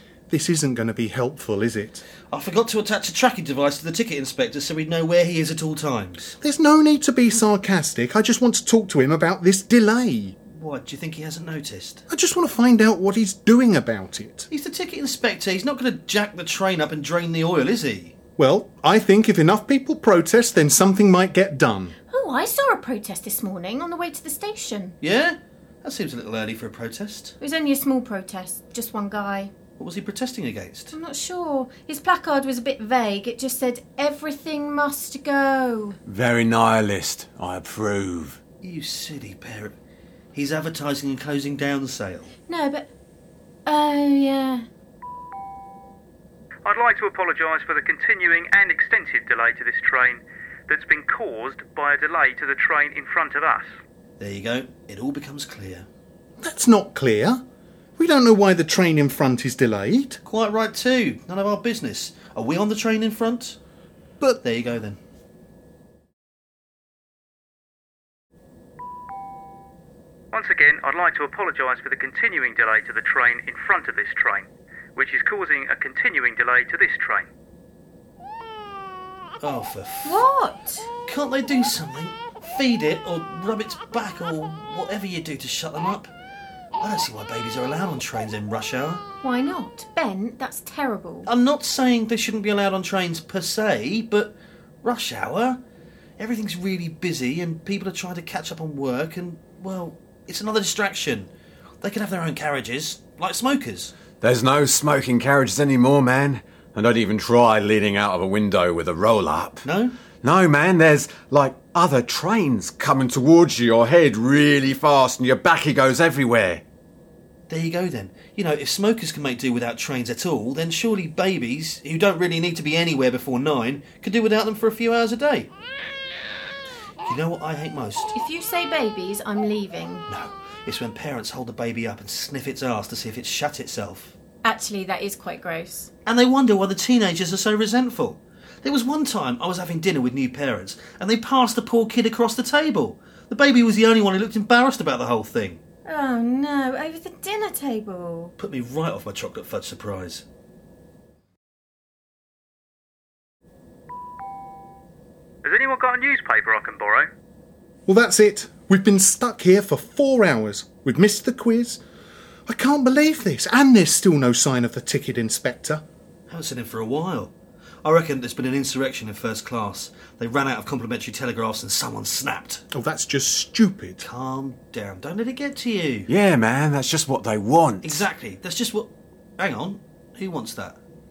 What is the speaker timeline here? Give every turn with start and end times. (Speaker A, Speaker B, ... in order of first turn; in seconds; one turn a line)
Speaker A: 0.3-2.0
Speaker B: 2.3-6.3
Speaker A: 6.4-10.3
Speaker B: 10.5-12.0
Speaker A: 12.1-14.5
Speaker B: 14.5-18.1
Speaker A: 18.4-21.9
Speaker C: 22.1-25.0
Speaker B: 25.0-27.3
Speaker C: 27.4-29.5
Speaker B: 29.8-30.9
Speaker C: 30.9-36.0
Speaker D: 36.0-38.4
Speaker B: 38.6-39.7
Speaker B: 40.3-42.3
Speaker C: 42.5-42.9
Speaker C: 43.6-44.6
Speaker E: 46.6-53.7
Speaker B: 54.2-55.9
Speaker A: 56.4-57.4
Speaker A: 58.0-60.2
Speaker B: 60.2-63.6
Speaker B: 64.4-65.0
Speaker E: 70.3-77.3
Speaker B: 79.4-80.2
Speaker C: 80.0-80.9
Speaker B: 81.0-86.1
Speaker B: 86.8-89.0
Speaker C: 89.2-91.3
Speaker B: 91.3-95.6
Speaker B: 96.2-101.3
Speaker B: 101.8-103.9
Speaker D: 104.2-109.6
Speaker B: 109.6-109.9
Speaker D: 110.2-116.6
Speaker B: 117.5-125.5
Speaker B: 127.0-128.1
Speaker C: 128.1-130.1
Speaker B: 130.1-134.1
Speaker C: 134.4-135.9
Speaker B: 136.1-145.6
Speaker C: 145.8-148.3
Speaker B: 148.4-150.2
Speaker E: 155.4-157.1
Speaker A: 157.8-161.8
Speaker A: 162.5-165.8
Speaker B: 166.3-167.3
Speaker B: 167.8-172.6
Speaker A: 172.7-174.0
Speaker B: 174.0-176.1
Speaker D: 176.1-178.0
Speaker B: 177.8-180.8